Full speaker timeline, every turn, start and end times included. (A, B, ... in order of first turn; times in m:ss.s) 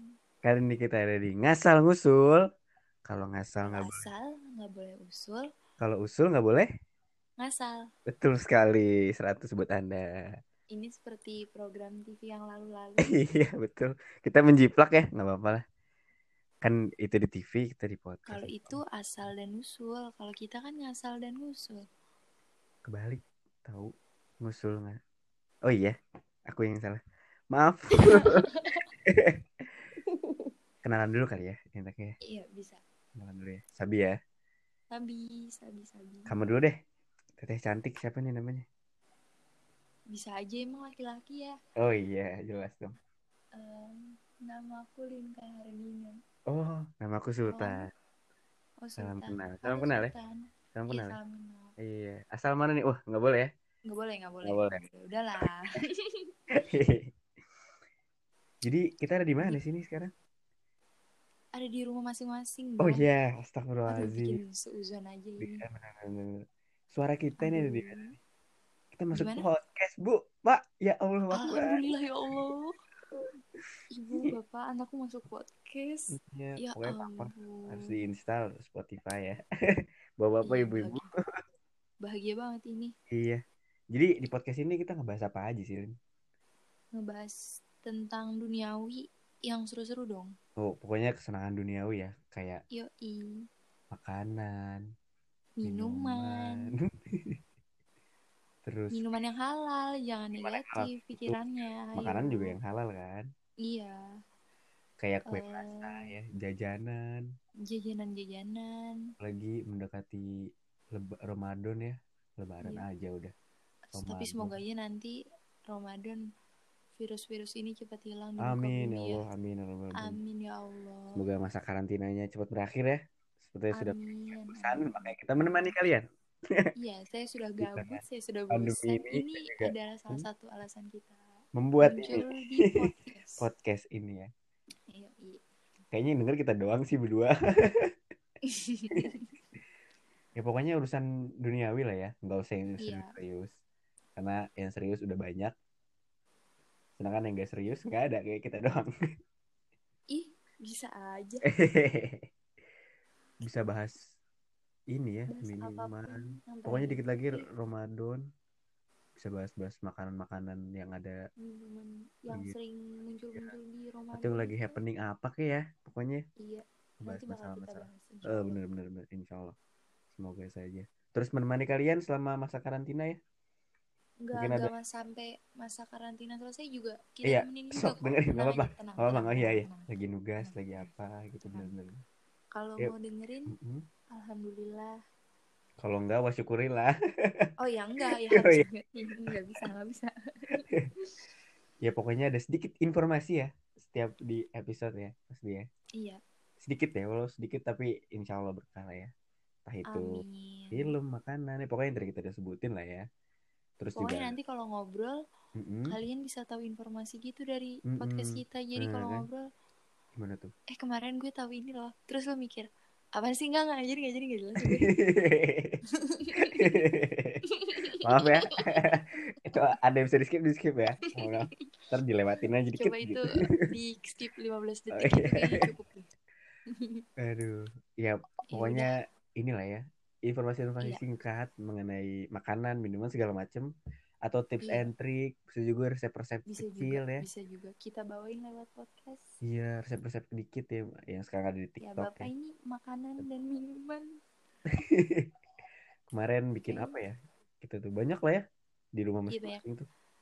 0:00.4-0:02.4 A
0:03.1-0:04.1 A
0:03.6-0:05.5 B
0:05.8-0:06.7 A
0:07.4-0:07.8 B
0:08.1-0:10.1 A
0:10.7-0:13.2 B
0:13.0-0:15.6 A
0:16.6-0:18.8 A
0:18.3-0:21.8 B
0:22.9-0:25.0 A
0:25.7-0:26.0 A
0:26.5-0:27.0 A
0:27.5-0:28.4 A
0:28.1-0:28.8 B
0:29.1-0:29.4 A
0:30.8-0:32.2 A
0:32.2-0:32.8 B
0:33.2-0:34.2 A
0:34.9-0:36.3 B
0:36.3-0:36.8 A
0:37.4-0:38.7 A
0:40.1-0:41.6 B
0:41.8-0:42.9 A
0:43.5-0:46.2 B
0:46.5-0:47.9 A
0:47.5-0:47.9 B
0:48.8-0:51.8 B
0:49.0-0:50.1 A
0:50.7-0:51.2 A
0:51.8-0:53.5 A
0:53.9-0:56.3 B
0:54.4-0:54.8 A
0:56.5-0:57.1 A
0:58.6-1:00.1 A
1:01.6-1:03.1 B
1:02.8-1:04.4 A
1:03.9-1:05.6 B
1:05.4-1:08.1 A
1:07.4-1:08.1 B
1:08.9-1:11.9 A
1:09.1-1:09.5 B
1:11.3-1:12.7 B
1:13.9-1:18.1 B
1:16.1-1:19.4 A
1:20.2-1:21.1 A
1:20.4-1:21.1 B
1:22.0-1:22.9 B
1:23.1-1:23.4 A
1:23.9-1:25.9 A
1:27.0-1:30.3 B
1:30.6-1:32.6 A
1:32.7-1:33.3 B
1:33.9-1:34.8 A
1:35.6-1:36.7 B
1:35.6-1:37.4 A
1:38.6-1:39.1 A
1:38.9-1:42.6 B
1:40.4-1:41.4 A
1:42.0-1:43.3 A
1:43.6-1:44.0 B
1:45.0-1:47.2 A
1:45.3-1:46.1 B
1:47.7-1:49.0 B
1:49.2-1:50.3 A
1:50.9-1:53.3 A
1:53.9-1:55.1 B
1:54.0-1:54.6 A
1:55.7-1:56.2 B
1:57.0-1:59.2 B
1:58.4-2:00.2 A
2:00.0-2:01.2 B
2:01.2-2:04.0 A
2:03.7-2:05.8 B
2:04.5-2:06.7 A
2:06.8-2:11.2 B
2:07.6-2:10.3 A
2:11.6-2:12.7 A
2:11.8-2:13.4 B
2:13.4-2:14.3 A
2:14.9-2:15.4 B
2:15.9-2:17.4 A
2:18.5-2:19.3 B
2:20.4-2:23.5 A
2:22.8-2:23.1 B
2:24.2-2:25.5 A
2:27.0-2:28.9 A
2:30.1-2:31.4 B
2:31.5-2:32.3 A
2:33.4-2:34.0 A
2:34.9-2:38.2 A
2:35.3-2:37.5 B
2:39.2-2:41.2 A
2:41.4-2:44.8 B
2:44.1-2:46.2 A
2:46.4-2:48.6 B
2:47.0-2:49.6 A
2:50.1-2:53.2 A
2:54.2-3:00.9 B
2:54.3-2:54.7 A
2:57.2-3:02.0 A
3:01.4-3:01.7 B
3:02.5-3:03.5 B
3:03.5-3:03.9 A
3:04.1-3:05.0 B
3:05.8-3:07.5 A
3:07.6-3:11.1 B
3:08.0-3:08.6 A
3:11.8-3:15.7 A
3:16.6-3:19.1 A
3:19.7-3:20.2 A
3:19.9-3:20.9 B
3:20.7-3:23.1 A
3:23.8-3:24.4 A
3:24.0-3:25.2 B
3:25.6-3:26.0 A
3:25.9-3:29.4 B
3:27.9-3:29.3 A
3:30.2-3:30.5 A
3:30.7-3:35.0 B
3:34.6-3:35.8 A
3:36.1-3:36.8 B
3:36.4-3:37.4 A
3:37.6-3:38.0 B
3:38.0-3:43.7 A
3:42.8-3:46.1 B
3:44.9-3:45.7 A
3:46.7-3:47.0 B
3:47.2-3:53.7 A
3:48.5-3:49.0 B
3:54.2-3:57.3 A
3:56.5-3:59.3 B
3:59.4-4:02.3 A
4:01.8-4:04.1 B
4:04.8-4:05.3 A
4:06.1-4:08.4 A
4:06.7-4:07.0 B
4:09.0-4:09.9 A
4:09.3-4:09.6 B